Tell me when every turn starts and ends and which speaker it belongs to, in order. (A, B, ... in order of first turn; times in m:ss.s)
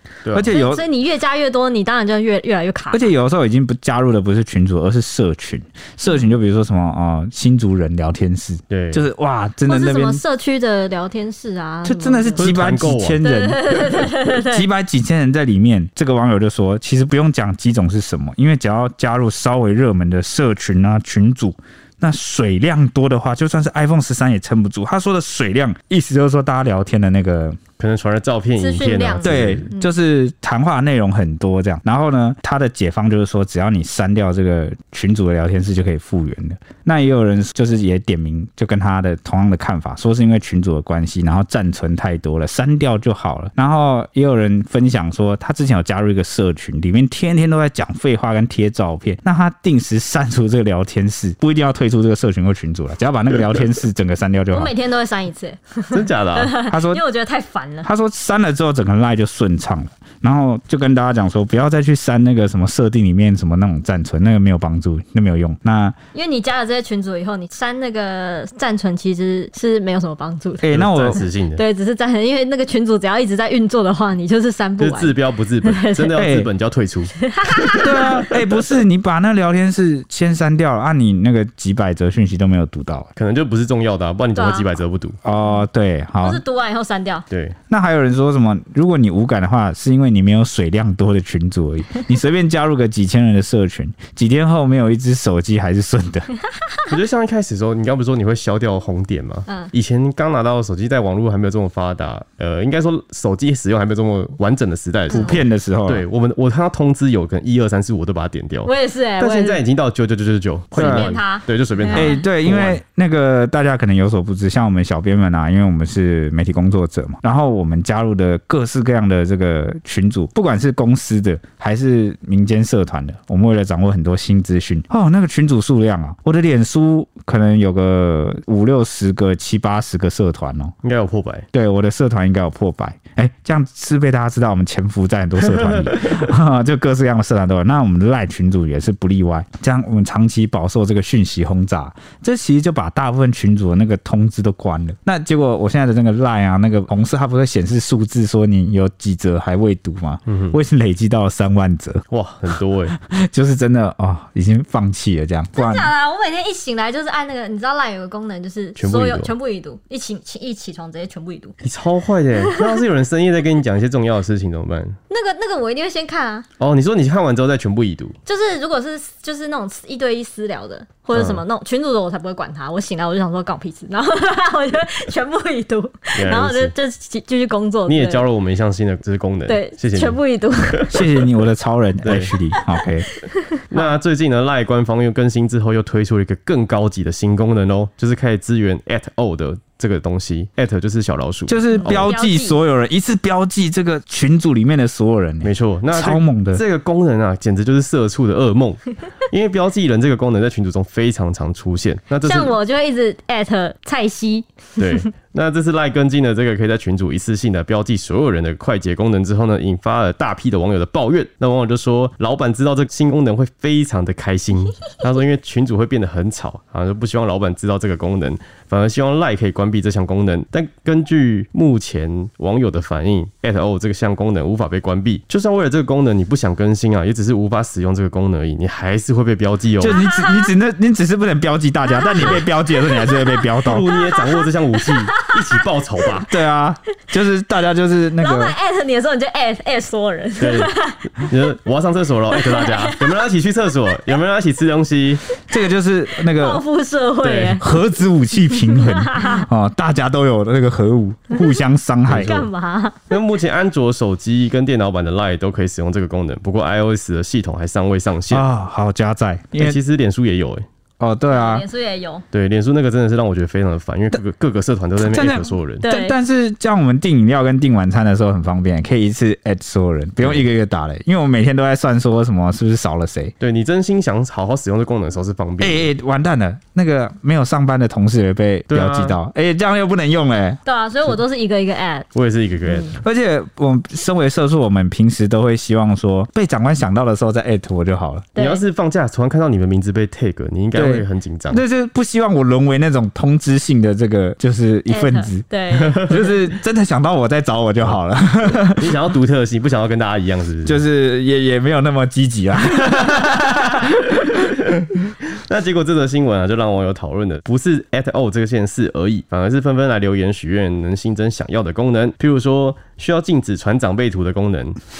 0:00.2-0:00.5 A
0:00.3-0:00.8 B
0:00.5-0:03.1 C
0:02.9-0:10.2 B
0:08.7-0:09.1 A
0:09.7-0:12.5 C
0:11.8-0:27.6 B
0:12.4-0:13.2 A
0:13.2-0:14.6 C
0:27.8-0:29.7 A
0:28.6-0:29.9 C
0:29.2-0:54.7 B
0:54.5-0:57.9 C
0:55.9-0:56.5 A
0:56.7-0:57.0 B
0:57.8-1:06.0 B
1:06.1-1:10.7 C
1:10.6-1:11.2 B
1:10.7-1:11.6 A
1:11.6-1:16.2 C
1:14.8-1:17.1 A
1:16.2-1:16.5 B
1:17.2-1:18.3 C
1:17.7-1:23.1 B
1:23.2-1:25.2 A
1:24.4-1:24.7 C
1:25.2-1:26.4 B
1:26.2-1:27.2 C
1:27.3-1:27.6 A
1:27.7-1:36.3 B
1:36.9-1:52.8 A
1:45.1-1:45.4 C
1:45.1-1:46.0 B
1:48.6-1:49.6 C
1:50.7-1:52.2 C
1:50.8-1:51.1 B
1:51.9-2:10.7 B
2:10.8-2:11.5 A
2:11.5-2:32.0 B
2:15.4-2:16.2 A
2:30.3-2:30.6 A
2:32.1-2:33.0 A
2:33.0-2:35.9 B
2:35.6-2:41.6 C
2:38.8-2:39.3 A
2:41.6-2:45.0 A
2:45.1-2:46.5 C
2:46.6-2:48.2 A
2:48.3-2:58.3 C
2:51.1-2:51.4 A
2:56.1-2:56.7 A
2:57.9-3:00.2 A
2:59.5-3:01.0 C
3:00.7-3:01.0 A
3:00.9-3:03.1 B
3:02.0-3:02.4 A
3:03.2-3:03.8 C
3:03.7-3:12.1 A
3:11.5-3:16.6 B
3:11.7-3:12.6 C
3:15.4-3:22.5 A
3:22.2-3:25.0 C
3:24.8-3:50.0 A
3:49.8-3:53.9 B
3:49.8-3:50.5 C
3:51.9-3:52.4 C
3:53.0-3:53.3 C
3:53.6-3:56.3 A
3:53.9-3:55.3 C
3:56.3-3:58.6 B
3:58.2-4:01.0 C
4:00.4-4:05.2 A
4:02.4-4:03.1 C
4:05.5-4:06.6 B
4:06.3-4:07.7 C
4:07.2-4:07.6 A
4:07.6-4:12.5 B
4:08.6-4:09.5 C
4:12.1-4:12.3 A
4:12.2-4:13.0 C
4:13.1-4:18.5 A
4:18.3-4:19.8 B
4:19.6-4:20.7 A
4:21.0-4:21.6 B
4:21.3-4:22.2 C
4:22.3-4:25.8 A
4:25.0-4:33.3 B
4:25.8-4:26.2 C
4:30.2-4:30.5 A
4:33.4-4:35.9 A
4:35.6-4:40.6 B
4:38.7-4:39.2 A
4:40.6-4:42.1 C
4:42.2-4:42.9 A
4:42.9-4:48.3 B
4:48.4-4:48.6 C
4:48.4-4:51.6 A
4:50.8-4:58.9 B
4:54.9-4:56.2 C
4:58.6-5:00.8 A
5:00.6-5:04.3 B
5:04.4-5:14.8 A